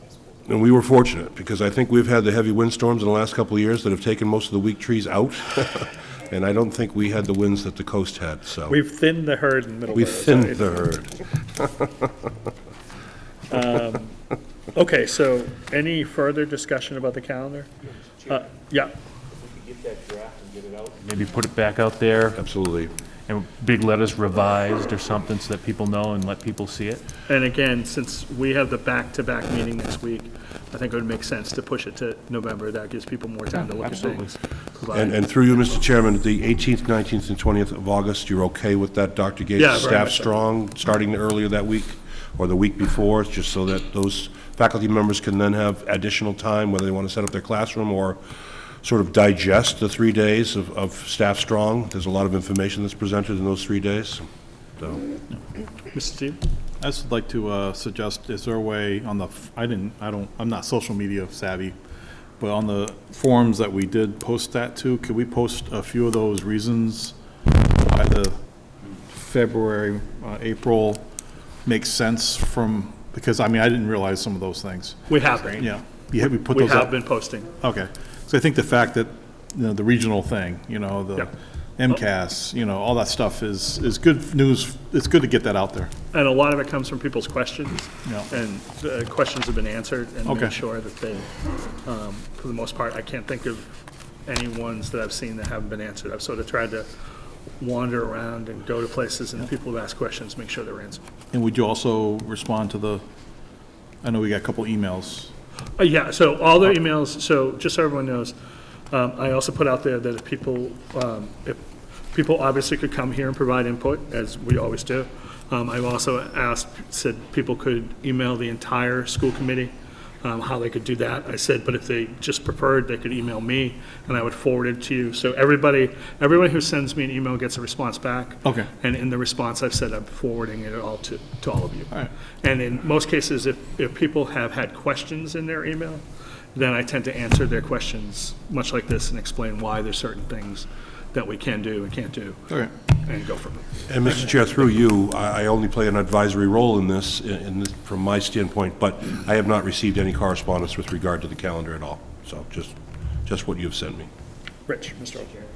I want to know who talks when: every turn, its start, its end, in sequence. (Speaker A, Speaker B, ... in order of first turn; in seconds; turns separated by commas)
Speaker A: 0.5-8.8, Speaker B: 8.7-10.8, Speaker A: 9.9-11.8, Speaker B: 13.5-14.2, Speaker B: 14.7-17.7, Speaker B: 18.3-18.9, Speaker C: 19.3-22.4, Speaker A: 22.4-22.9, Speaker C: 23.3-27.1, Speaker B: 27.3-35.2, Speaker C: 33.7-34.4, Speaker A: 34.9-54.2, Speaker B: 39.5-40.3, Speaker A: 54.8-55.0, Speaker B: 55.9-56.4, Speaker D: 56.8-61.8, Speaker D: 62.4-68.4, Speaker D: 69.0-71.1, Speaker D: 71.6-85.9, Speaker B: 75.1-77.5, Speaker B: 86.1-91.3, Speaker D: 88.0-88.3, Speaker D: 90.2-90.6, Speaker B: 91.8-93.7, Speaker B: 94.2-96.9, Speaker B: 97.6-101.0, Speaker D: 101.3-103.0, Speaker D: 104.0-105.3, Speaker B: 105.8-108.3, Speaker B: 108.9-111.6, Speaker B: 112.1-136.0, Speaker B: 136.5-144.3, Speaker A: 143.9-154.1, Speaker B: 154.7-155.3